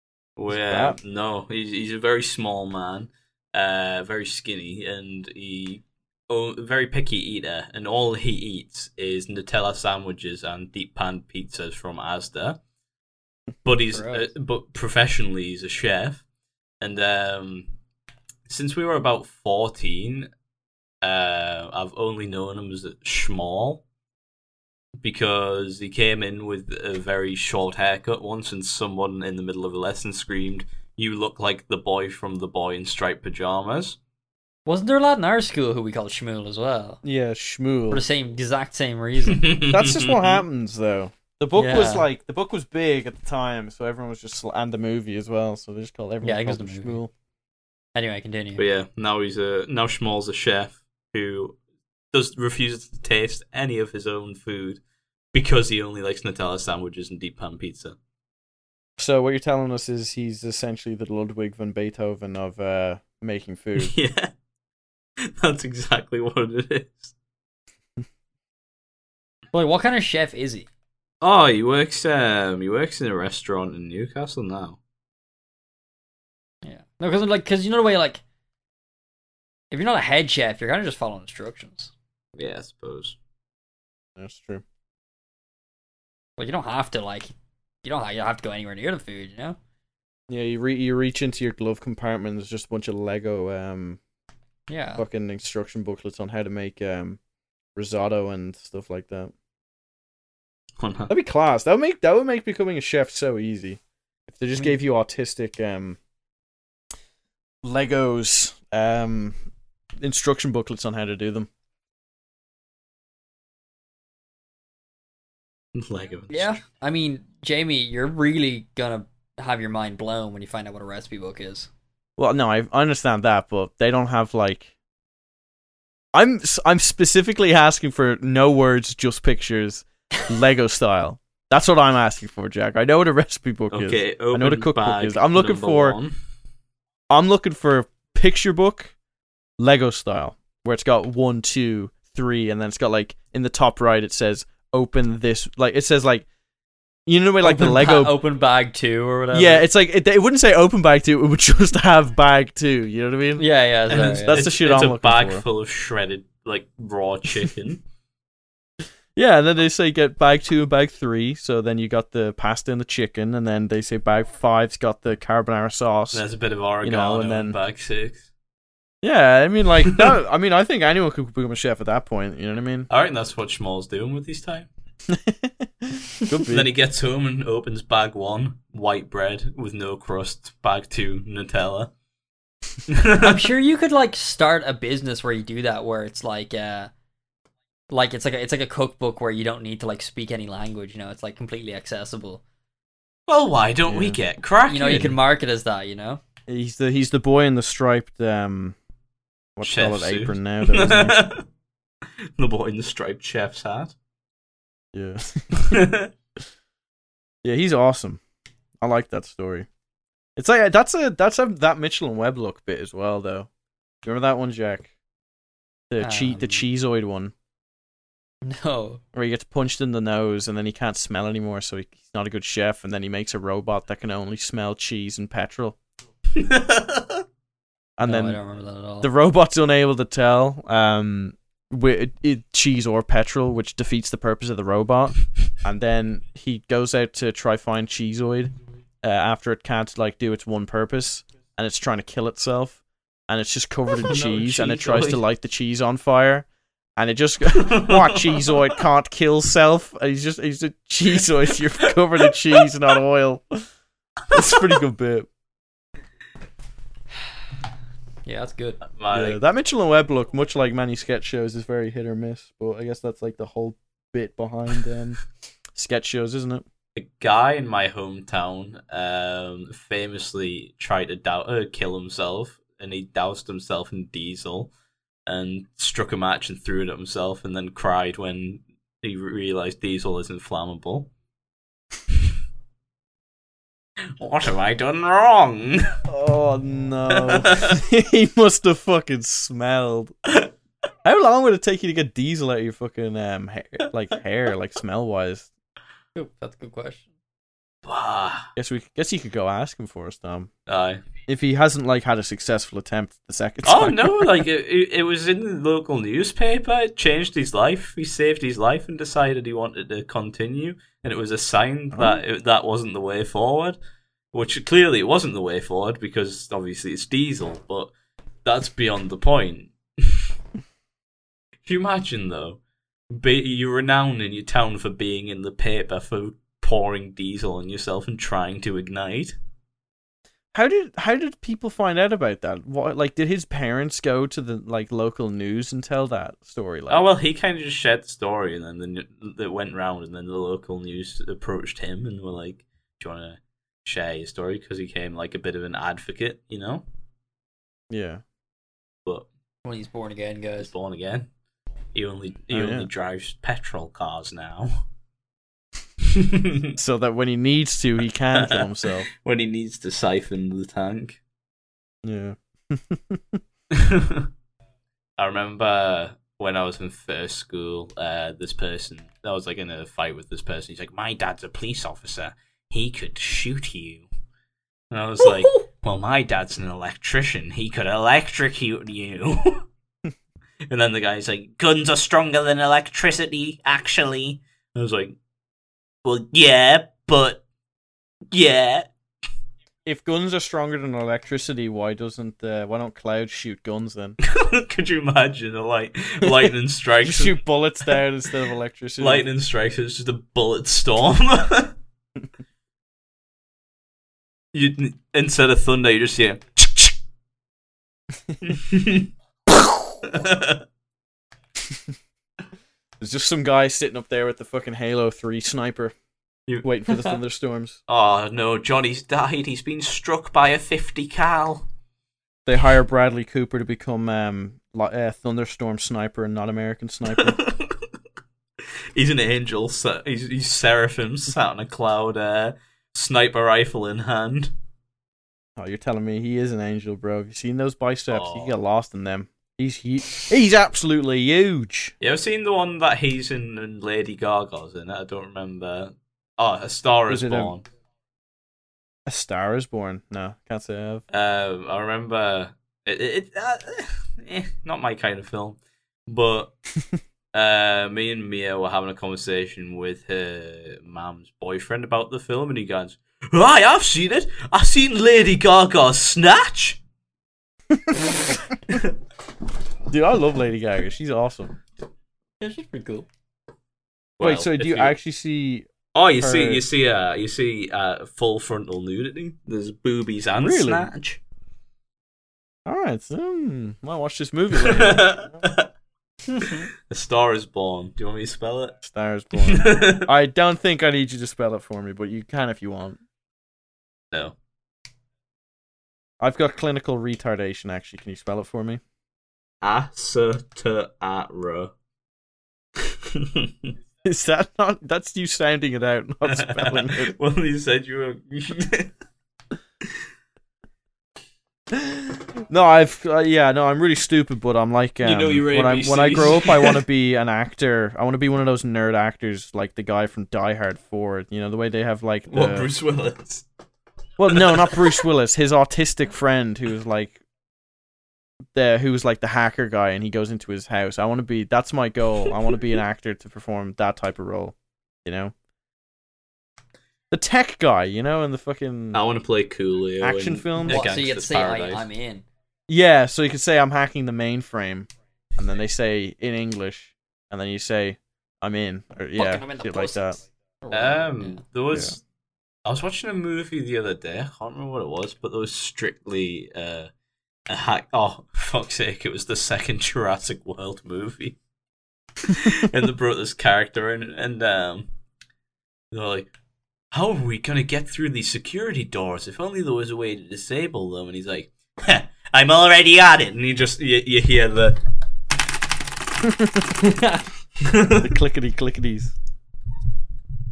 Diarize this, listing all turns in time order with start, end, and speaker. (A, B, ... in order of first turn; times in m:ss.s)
0:00.4-0:12.6 A
0:00.5-0:01.0 B
0:13.6-0:16.2 A
0:13.9-0:14.3 C
0:16.8-0:17.7 A
0:18.5-0:20.3 A
0:21.0-0:23.8 A
0:25.0-0:34.0 A
0:34.6-0:37.0 C
0:37.0-0:38.0 B
0:37.9-0:39.5 C
0:39.3-0:40.4 A
0:39.7-0:47.1 B
0:41.5-0:42.1 C
0:46.2-0:47.0 C
0:47.9-0:48.6 C
0:48.6-0:51.6 A
0:52.1-0:54.8 A
0:55.3-0:58.0 A
0:59.0-1:03.9 B
1:03.8-1:04.3 A
1:05.2-1:07.1 A
1:09.5-1:10.7 C
1:11.2-1:14.8 A
1:16.6-1:18.2 C
1:19.7-1:21.9 C
1:22.4-1:23.2 A
1:24.2-1:24.6 B
1:26.4-1:27.3 C
1:27.8-1:29.6 C
1:30.3-1:34.0 B
1:34.7-1:35.0 C
1:35.0-1:37.2 B
1:37.8-1:39.3 B
1:40.8-1:41.1 A
1:41.1-1:46.0 B
1:47.6-1:49.4 B
1:50.0-1:51.5 B
1:55.7-1:56.6 A
1:56.3-2:01.7 C
2:02.2-2:04.7 B
2:06.1-2:16.0 B
2:13.7-2:16.1 A
2:17.1-2:18.9 B
2:19.6-2:26.3 B
2:27.1-2:28.2 B
2:27.4-2:29.6 C
2:29.3-2:35.4 B
2:33.4-2:34.5 C
2:33.9-2:37.8 A
2:39.1-2:46.2 B
2:46.1-2:48.3 A
2:46.8-2:47.6 B
2:49.0-2:52.9 B
2:49.9-2:50.1 A
2:52.9-2:54.7 A
2:55.1-2:56.7 B
2:56.4-3:01.9 A
3:02.9-3:03.5 A
3:03.1-3:06.9 C
3:07.9-3:12.4 C
3:13.3-3:15.2 A
3:13.8-3:14.2 B
3:14.7-3:16.2 C
3:16.5-3:18.8 B
3:19.6-3:21.2 B
3:19.6-3:21.4 A
3:22.2-3:23.9 A
3:24.9-3:25.9 B
3:25.6-3:26.1 A
3:27.4-3:28.2 B
3:28.8-3:29.7 B
3:30.4-3:33.5 B
3:34.0-3:34.9 B
3:35.9-3:37.3 B
3:36.0-3:36.6 C
3:38.4-3:39.0 C
3:39.1-3:45.8 B
3:46.3-3:47.2 A
3:48.0-3:48.4 B
3:48.0-3:49.1 C
3:49.0-4:13.6 B
4:03.9-4:05.2 A
4:07.5-4:08.7 A
4:11.8-4:12.6 A
4:14.3-4:14.8 A
4:14.3-4:15.3 B
4:18.2-4:18.8 C
4:18.9-4:19.4 A
4:19.1-4:25.2 B
4:25.7-4:26.6 B
4:27.0-4:34.7 A
4:35.3-4:41.1 A
4:44.2-4:45.9 A
4:46.1-4:50.1 B
4:47.1-4:47.8 A
4:51.0-4:55.5 B
4:56.2-4:57.0 C
4:57.8-4:58.5 A
4:58.6-5:00.5 B
5:00.7-5:01.0 A
5:01.3-5:04.4 B
5:03.6-5:13.8 A
5:11.9-5:12.2 B
5:14.3-5:17.9 A
5:18.4-5:20.2 A
5:21.6-5:29.4 A
5:30.5-5:37.1 B
5:36.9-5:46.8 A
5:47.9-5:48.2 B
5:49.6-5:50.7 C
5:50.6-5:51.3 A
5:51.9-5:54.8 A
5:52.5-5:52.9 B
5:56.0-5:56.7 A
5:56.8-5:59.1 B
5:58.3-6:01.2 A
6:02.0-6:03.4 B
6:03.7-6:04.3 A
6:05.2-6:14.0 A
6:14.9-6:19.6 A
6:15.2-6:15.6 C
6:20.7-6:25.2 A
6:26.0-6:27.4 A
6:28.3-6:28.9 A
6:29.8-6:34.2 B
6:34.2-6:38.0 A
6:36.2-6:39.3 B
6:39.0-6:41.7 A
6:44.5-6:47.0 A
6:48.4-6:49.1 A
6:50.0-6:50.6 A
6:53.0-6:55.9 B
6:56.6-6:57.8 B
6:56.9-6:57.1 C
6:57.9-7:01.6 A
7:02.4-7:07.4 B
7:07.1-7:07.8 A
7:08.9-7:14.5 A
7:15.6-7:21.9 B
7:18.1-7:18.5 A
7:22.0-7:27.6 A
7:27.1-7:27.5 B
7:29.1-7:31.0 B
7:31.1-7:36.5 A
7:37.3-7:46.8 A
7:47.7-7:48.2 B
7:49.9-7:51.6 B
7:52.4-7:53.1 C
7:54.2-7:55.0 A
7:54.2-7:56.6 B
7:55.9-8:01.2 A
8:00.4-8:00.9 B
8:02.6-8:05.5 B
8:04.5-8:05.7 A
8:06.3-8:06.7 C
8:06.4-8:08.8 A
8:08.8-8:13.0 B
8:09.4-8:10.1 A
8:16.2-8:18.8 B
8:19.6-8:21.7 A
8:22.8-8:23.7 A
8:24.0-8:27.1 B
8:26.2-8:28.9 A
8:31.7-8:42.7 B
8:35.0-8:36.8 A
8:42.3-8:43.4 A
8:44.2-8:47.2 B
8:44.3-8:45.0 A
8:48.5-8:54.5 B
8:55.0-8:55.3 B
8:57.1-8:59.0 B
8:58.9-9:01.8 A
9:00.0-9:00.8 B
9:00.6-9:02.2 C
9:02.7-9:10.2 B
9:09.2-9:11.4 C
9:10.7-9:12.0 A
9:12.6-9:16.9 A
9:17.5-9:21.4 A
9:22.2-9:24.9 A
9:25.9-9:26.3 A
9:26.9-9:34.8 A
9:36.2-9:36.9 B
9:36.8-9:37.2 C
9:37.6-9:38.1 A
9:37.9-9:39.1 B